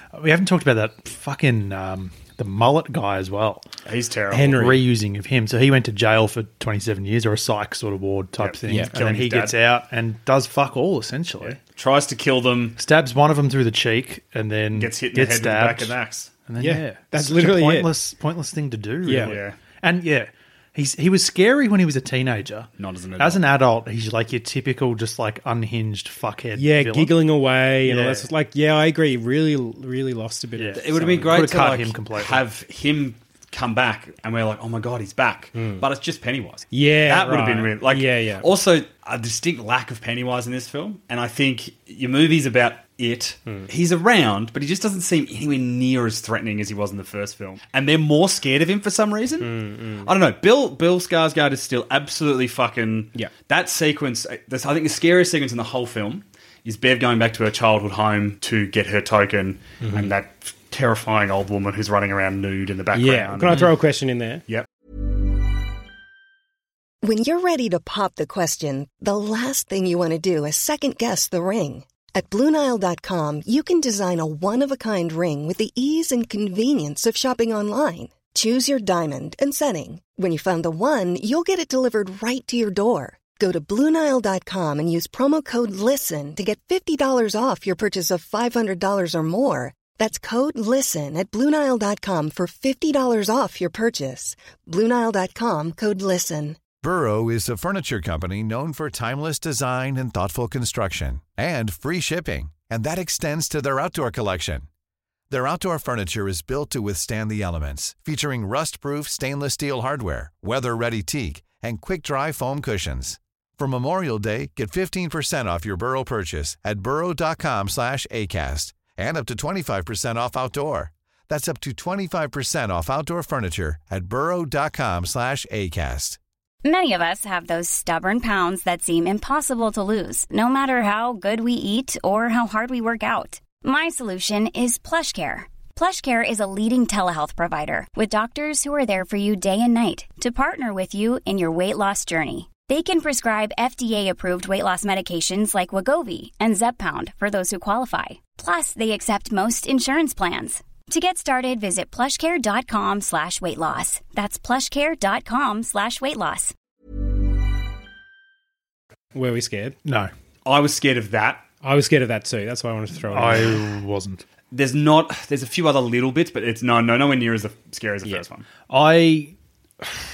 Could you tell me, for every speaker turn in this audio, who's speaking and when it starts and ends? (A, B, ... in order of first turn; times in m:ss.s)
0:00.1-0:03.6 A
0:03.8-0:04.6 B
0:04.3-0:04.9 C
0:04.5-0:11.6 A
0:08.4-0:09.6 B
0:08.7-0:08.9 C
0:11.4-0:12.8 B
0:12.8-0:15.9 A
0:14.7-0:16.3 B
0:16.4-0:27.2 A
0:16.6-0:17.9 C
0:19.0-0:19.3 C
0:19.2-0:19.6 B
0:22.8-0:23.5 B
0:26.6-0:31.5 C
0:27.8-0:28.3 A
0:30.6-0:32.4 A
0:30.7-0:49.5 B
0:35.5-0:35.8 C
0:36.7-0:38.5 C
0:49.4-0:50.1 C
0:50.0-1:03.7 B
0:59.8-1:00.1 C
1:02.9-1:04.4 C
1:07.0-1:36.6 D
1:36.8-1:44.6 E
1:45.3-2:06.2 E
2:06.6-2:36.5 F
2:39.1-2:39.8 C
2:39.8-2:40.1 A
2:40.4-2:41.4 B
2:41.6-2:43.6 C
2:43.0-2:44.2 A
2:44.5-2:48.5 B
2:48.7-2:49.3 A